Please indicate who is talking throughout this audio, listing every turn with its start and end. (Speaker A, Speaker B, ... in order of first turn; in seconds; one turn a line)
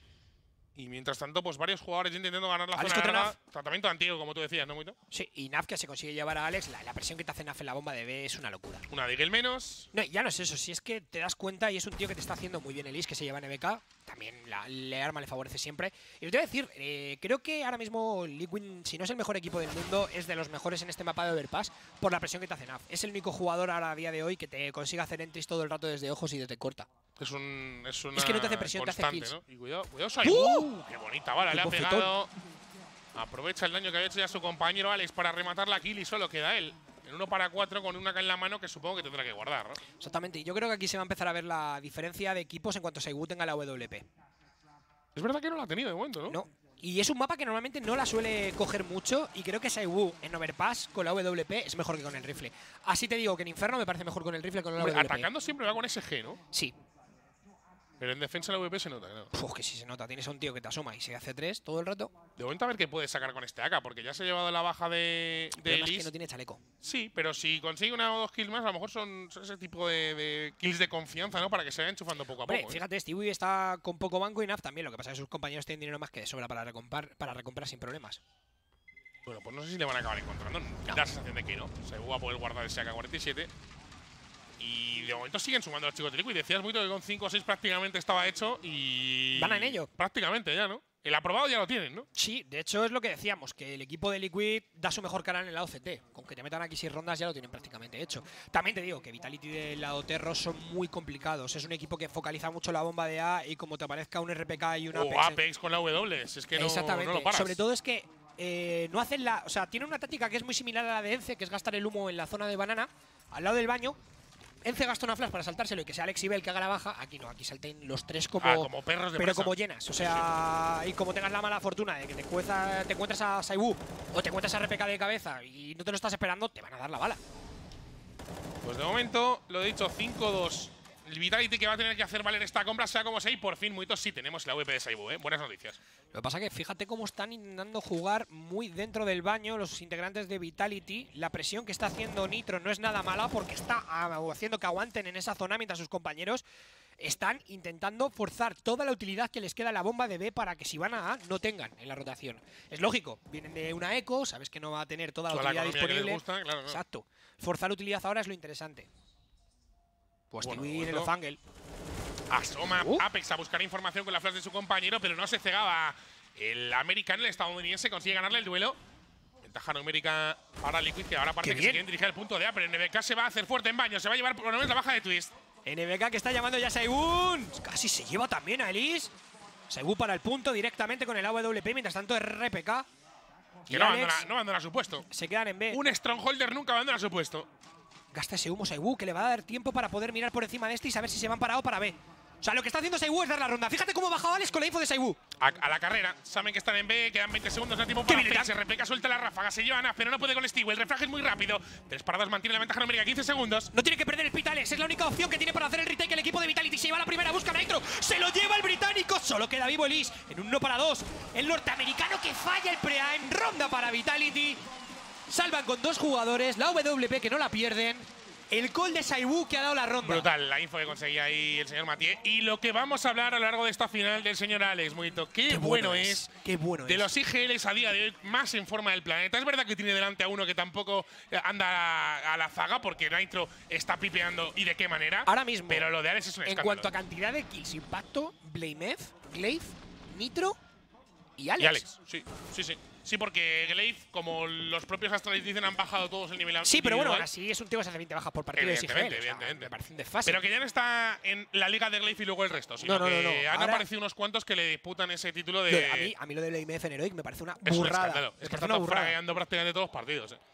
Speaker A: 0.7-5.0
Speaker B: 2.7-3.4
Speaker B: 5.1-8.8
Speaker A: 8.9-9.9
Speaker B: 9.9-26.9
Speaker A: 27.2-32.3
Speaker B: 28.1-29.4
Speaker B: 30.2-30.7
Speaker B: 31.5-32.1
Speaker A: 33.1-39.8
Speaker B: 40.0-44.0
Speaker A: 45.1-46.4
Speaker B: 46.3-55.3
Speaker A: 54.8-56.4
Speaker A: 58.0-59.3
Speaker B: 59.3-62.1
Speaker A: 62.4-66.1
Speaker B: 65.5-66.6
Speaker A: 66.8-72.8
Speaker B: 72.4-78.2
Speaker A: 79.2-83.5
Speaker A: 84.6-92.1
Speaker B: 89.3-89.9
Speaker B: 92.1-105.4
Speaker A: 104.9-107.6
Speaker B: 106.5-114.0
Speaker B: 114.6-127.2
Speaker A: 118.4-120.3
Speaker A: 128.6-135.8
Speaker B: 136.1-146.4
Speaker B: 147.0-158.9
Speaker A: 155.3-156.8
Speaker B: 160.3-161.4
Speaker A: 160.4-161.1
Speaker A: 162.3-168.8
Speaker B: 162.8-163.0
Speaker A: 169.4-175.3
Speaker B: 171.4-171.8
Speaker B: 175.7-179.1
Speaker B: 179.7-182.8
Speaker B: 183.7-184.2
Speaker A: 183.7-185.0
Speaker B: 185.1-185.8
Speaker A: 185.7-187.5
Speaker B: 188.1-195.2
Speaker A: 195.4-203.7
Speaker B: 198.1-198.5
Speaker B: 203.7-214.6
Speaker B: 215.3-220.3
Speaker A: 220.0-226.3
Speaker B: 225.5-227.1
Speaker A: 226.8-236.9
Speaker B: 235.2-235.9
Speaker B: 236.4-240.6
Speaker B: 241.4-241.9
Speaker A: 241.6-247.3
Speaker B: 246.6-250.4
Speaker A: 248.6-249.7
Speaker A: 250.2-256.1
Speaker B: 252.8-253.8
Speaker B: 255.7-259.1
Speaker A: 257.6-260.4